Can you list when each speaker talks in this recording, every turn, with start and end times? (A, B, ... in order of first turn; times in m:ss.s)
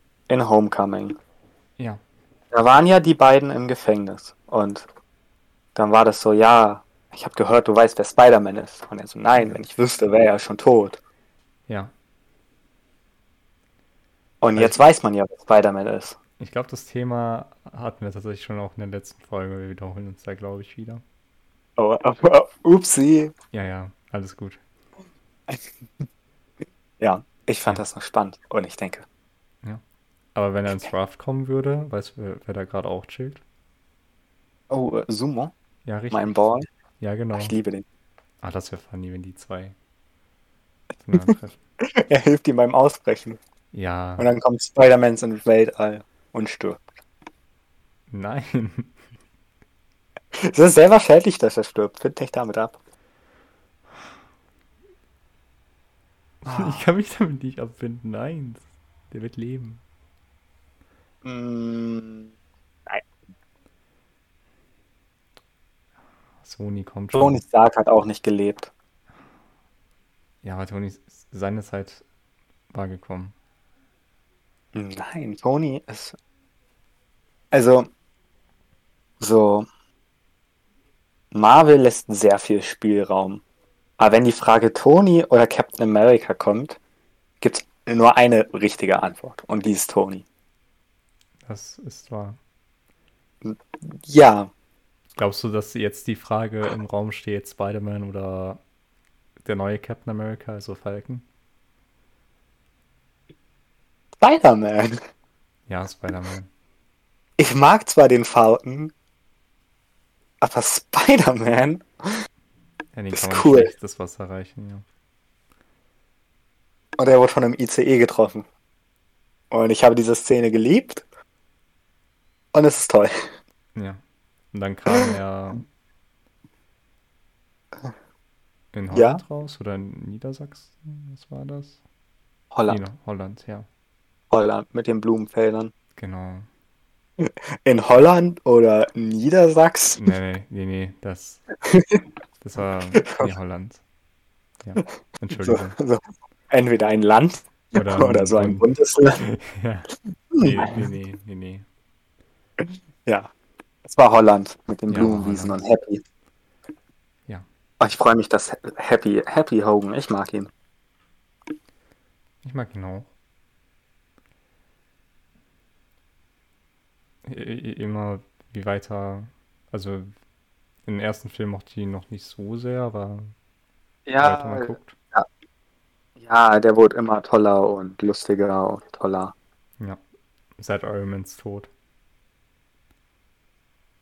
0:00.3-0:01.2 A
0:02.5-0:04.8 A
0:05.7-0:11.0 A
0:14.4-0:16.2 A
0:16.4-0:21.0 B
0:21.8-0:23.3 A
0:23.5-0:24.6 B
0:27.0-0:29.0 A
0:30.3-0:33.4 B
0:34.7-0:35.5 A
0:35.8-0:36.3 B
0:36.1-0:36.7 A
0:37.0-0:37.5 B
0:37.4-0:37.8 A
0:38.4-0:39.7 B
0:41.0-0:41.6 B
0:41.8-0:43.4 A
0:43.7-0:44.2 B
0:44.2-0:46.8 A
0:48.1-0:48.9 B
0:50.3-0:52.8 A
0:56.4-0:59.8 B
0:56.4-0:56.9 A
1:01.2-1:02.3 A
1:06.4-1:07.4 B
1:07.1-1:08.7 A
1:10.4-1:12.0 B
1:12.7-1:13.3 B
1:14.7-1:16.1 A
1:17.5-1:17.9 A
1:19.2-1:19.7 A
1:21.3-1:23.4 A
1:24.0-1:26.8 A
1:27.4-1:30.2 A
1:31.4-1:32.4 B
1:33.4-1:34.5 A
1:35.2-1:38.6 B
1:39.4-1:41.2 B
1:44.2-1:45.0 A
1:45.7-1:46.5 B
1:47.4-1:48.9 A
1:50.4-1:51.8 A
1:52.9-1:54.8 B
1:53.1-1:53.7 A
1:57.0-1:58.4 A
1:59.5-2:01.0 A
2:02.5-2:03.1 A
2:03.7-2:04.0 B
2:04.5-2:05.6 B
2:08.7-2:11.8 B
2:08.9-2:09.2 A
2:12.5-2:12.8 A
2:12.7-2:13.7 B
2:14.3-2:15.7 A
2:16.0-2:16.5 B
2:17.2-2:20.1 A
2:20.0-2:21.4 B
2:21.6-2:22.0 A
2:22.4-2:23.8 B
2:22.9-2:23.3 A
2:24.6-2:25.8 B
2:25.4-2:29.2 A
2:27.7-2:28.7 B
2:29.2-2:31.6 B
2:30.3-2:30.8 A
2:33.8-2:36.0 A
2:34.9-2:35.6 B
2:37.8-2:40.5 A
2:42.4-2:43.1 B
2:47.2-2:50.1 B
2:50.8-2:53.3 B
2:54.1-2:55.2 A
2:54.2-2:55.0 B
2:56.2-2:59.3 A
3:00.6-3:01.7 B